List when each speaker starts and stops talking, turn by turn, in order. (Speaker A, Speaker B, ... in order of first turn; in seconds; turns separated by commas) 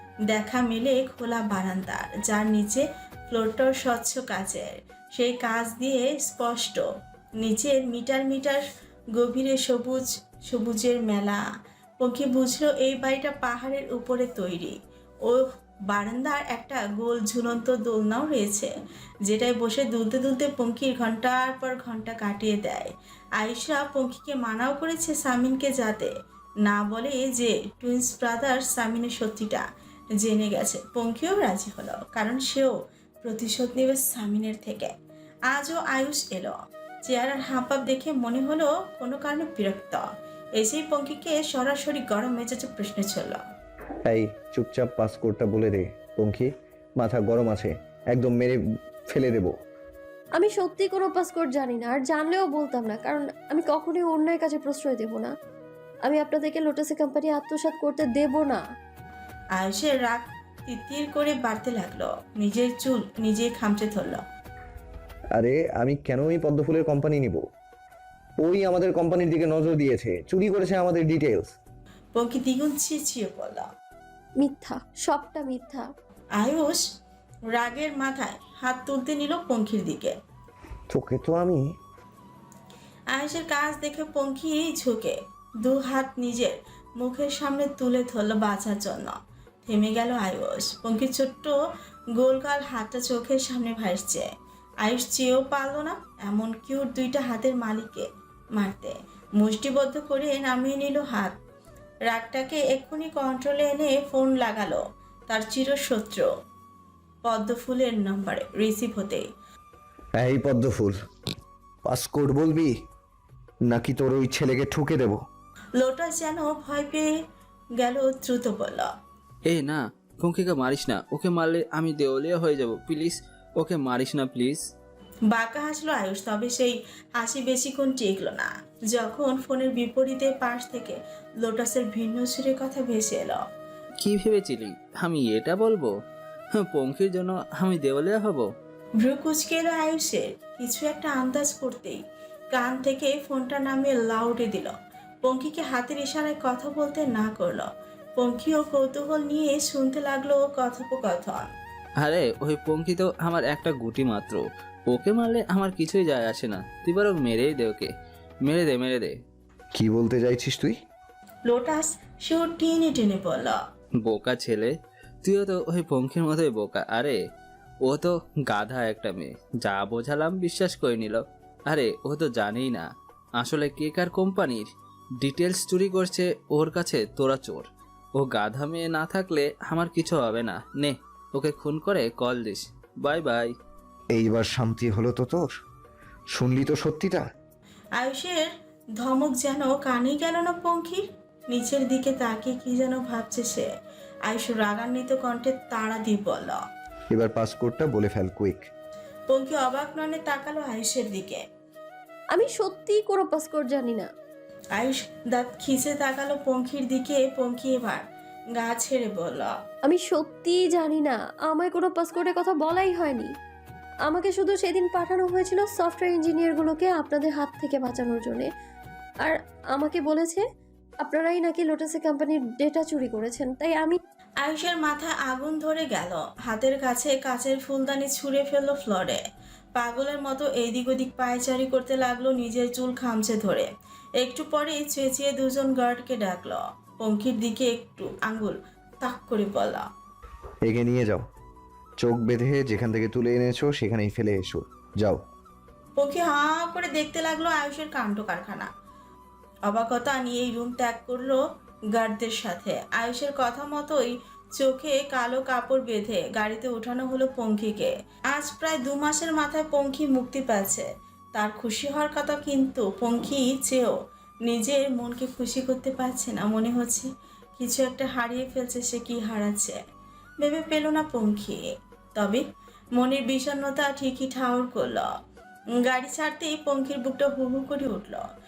Speaker A: 0.3-6.8, Speaker A: 7.4-8.6, Speaker A: 9.2-11.4, Speaker A: 12.0-18.7, Speaker A: 19.3-26.1, Speaker A: 26.6-29.6, Speaker A: 30.2-34.9, Speaker A: 35.5-40.0, Speaker A: 40.6-43.4, Speaker B: 44.1-49.5, Speaker C: 50.4-55.3, Speaker C: 56.0-58.6, Speaker A: 59.6-64.2, Speaker B: 65.3-67.4, Speaker B: 68.4-71.5, Speaker A: 72.1-73.7, Speaker C: 74.4-75.9, Speaker A: 76.4-76.8, Speaker A: 77.5-80.1, Speaker B: 80.9-81.6, Speaker A: 83.1-91.6, Speaker A: 92.2-94.3, Speaker A: 94.8-101.4, Speaker A: 102.1-106.3, Speaker A: 107.2-109.2, Speaker B: 110.2-111.0, Speaker B: 111.8-112.7, Speaker B: 113.7-115.2, Speaker A: 115.8-117.1, Speaker A: 117.8-118.9, Speaker D: 119.5-124.6, Speaker A: 125.3-133.4, Speaker D: 134.0-135.9, Speaker D: 136.5-138.5, Speaker A: 139.0-142.0, Speaker A: 142.5-151.5, Speaker D: 152.0-157.9, Speaker D: 158.4-159.2, Speaker B: 159.8-160.8, Speaker A: 161.5-163.6, Speaker D: 164.0-167.2, Speaker D: 167.8-183.5, Speaker B: 184.1-185.4, Speaker B: 186.3-187.3, Speaker A: 188.0-188.5, Speaker A: 189.0-193.7, Speaker A: 194.3-196.6, Speaker B: 197.1-198.7, Speaker A: 199.3-201.4, Speaker C: 202.3-204.1, Speaker A: 204.7-208.0, Speaker A: 208.6-209.5, Speaker C: 209.8-213.3, Speaker C: 214.1-218.5, Speaker C: 219.2-220.4, Speaker C: 221.0-224.0, Speaker A: 224.4-229.2, Speaker A: 229.8-233.7, Speaker A: 234.2-239.9, Speaker B: 240.6-241.3, Speaker B: 242.0-245.2, Speaker A: 246.0-248.7, Speaker A: 249.7-251.4, Speaker A: 251.9-263.9, Speaker A: 264.5-269.8, Speaker A: 270.4-271.6, Speaker A: 272.2-272.4, Speaker A: 273.0-275.1, Speaker A: 275.8-278.2